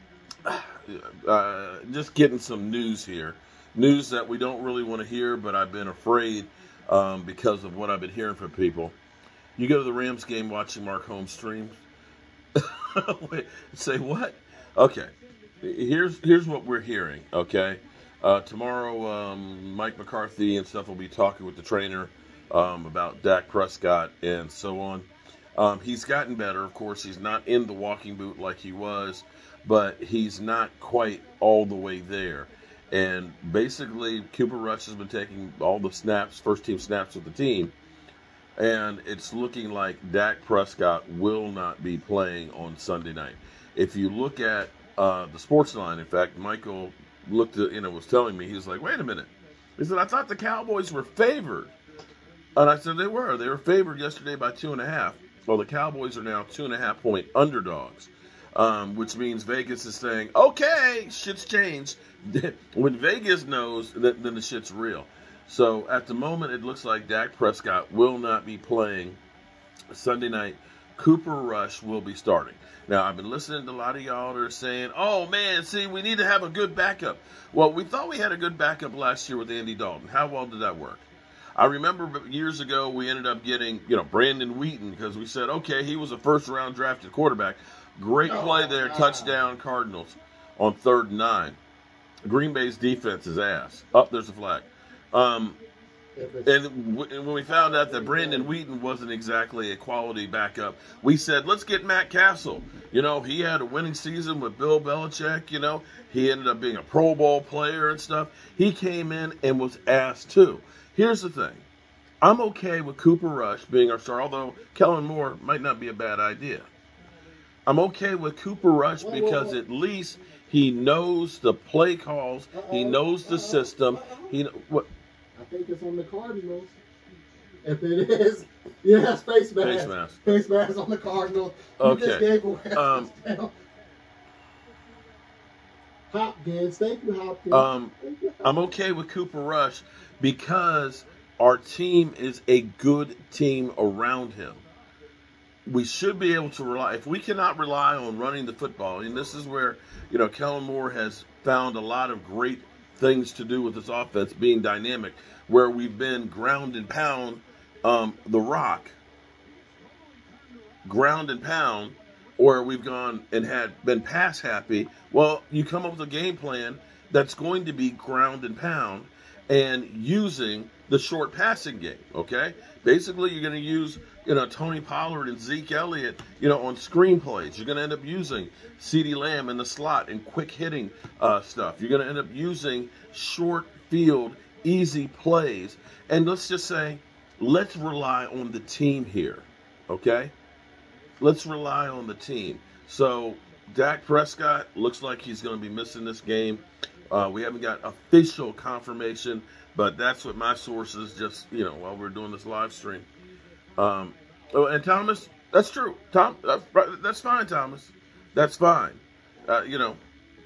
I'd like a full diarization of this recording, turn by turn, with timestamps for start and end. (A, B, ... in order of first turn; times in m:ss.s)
0:00.4-0:09.0 A
0:09.6-0:11.8 A
0:12.5-0:15.1 A
0:15.6-0:37.7 A
0:38.6-0:51.7 A
0:52.6-1:09.2 A
1:09.9-1:31.6 A
1:28.3-1:29.3 B
1:32.2-1:35.6 A
1:36.2-1:36.5 B
1:36.4-1:51.6 A
1:37.6-1:38.5 B
1:52.2-1:56.7 A
1:57.6-2:04.9 A
1:59.0-1:59.6 B
2:02.5-2:04.3 B
2:05.4-2:06.8 B
2:07.6-2:13.5 B
2:09.6-2:10.3 A
2:11.8-2:13.1 A
2:16.1-2:18.5 B
2:17.5-2:24.6 A
2:25.7-2:39.0 A
2:40.8-3:10.3 A
3:11.2-3:23.1 A
3:23.8-3:30.0 A